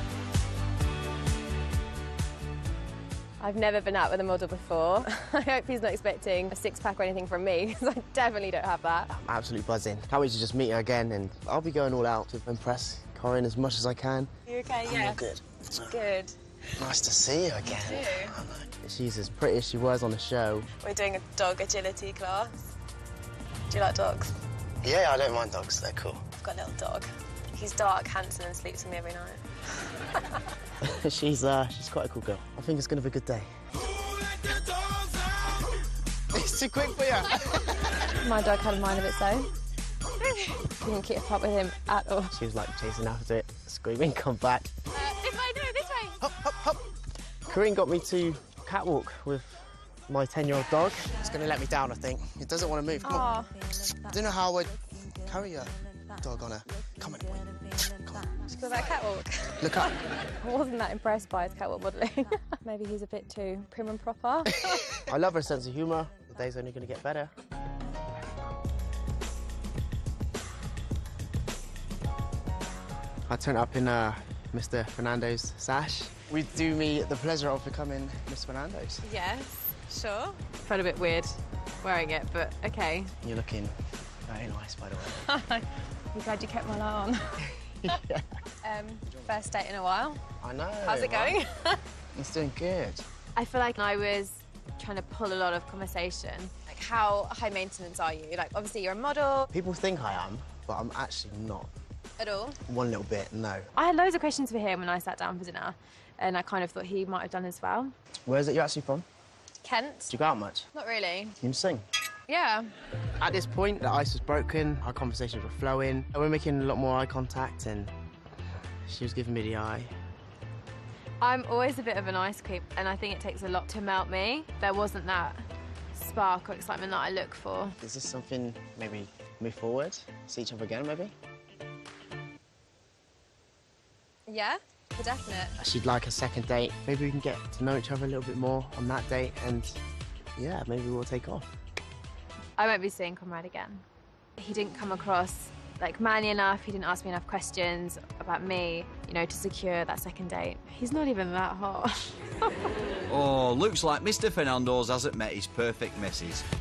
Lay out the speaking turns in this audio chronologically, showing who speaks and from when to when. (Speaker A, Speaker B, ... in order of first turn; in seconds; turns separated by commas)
Speaker A: 3.4-9.1, Speaker B: 9.1-14.3, Speaker A: 14.5-15.2, Speaker B: 14.8-16.0, Speaker A: 15.8-16.4, Speaker B: 16.8-20.7, Speaker A: 17.7-18.4, Speaker A: 20.8-22.6, Speaker A: 23.7-24.4, Speaker B: 24.8-26.3, Speaker A: 26.3-29.6, Speaker B: 30.8-33.5, Speaker B: 34.4-35.1, Speaker B: 36.3-38.0, Speaker A: 38.1-39.5, Speaker A: 40.2-42.3, Speaker B: 42.3-44.7, Speaker A: 44.9-46.2, Speaker B: 46.2-46.8, Speaker B: 47.5-58.5, Speaker A: 53.0-53.6, Speaker A: 58.5-59.9, Speaker B: 59.6-59.9, Speaker A: 60.4-65.0, Speaker B: 65.0-67.3, Speaker B: 73.3-79.0, Speaker A: 79.0-83.1, Speaker B: 83.2-85.3, Speaker A: 85.2-87.5, Speaker B: 87.6-88.3, Speaker A: 88.6-90.2, Speaker B: 90.4-91.4, Speaker A: 90.8-91.8, Speaker B: 92.2-93.0, Speaker A: 93.3-99.5, Speaker B: 99.5-101.7, Speaker A: 102.2-102.6, Speaker B: 102.7-103.7, Speaker A: 103.8-107.9, Speaker B: 108.3-109.0, Speaker A: 109.6-110.1, Speaker B: 110.1-110.7, Speaker A: 110.7-111.4, Speaker B: 111.4-111.8, Speaker A: 112.3-112.7, Speaker B: 113.2-117.9, Speaker B: 118.9-119.9, Speaker A: 121.2-127.8, Speaker B: 127.8-131.1, Speaker A: 134.3-135.6, Speaker B: 135.6-139.8, Speaker B: 140.4-141.5, Speaker A: 142.6-143.8, Speaker A: 144.4-152.5, Speaker C: 153.1-156.4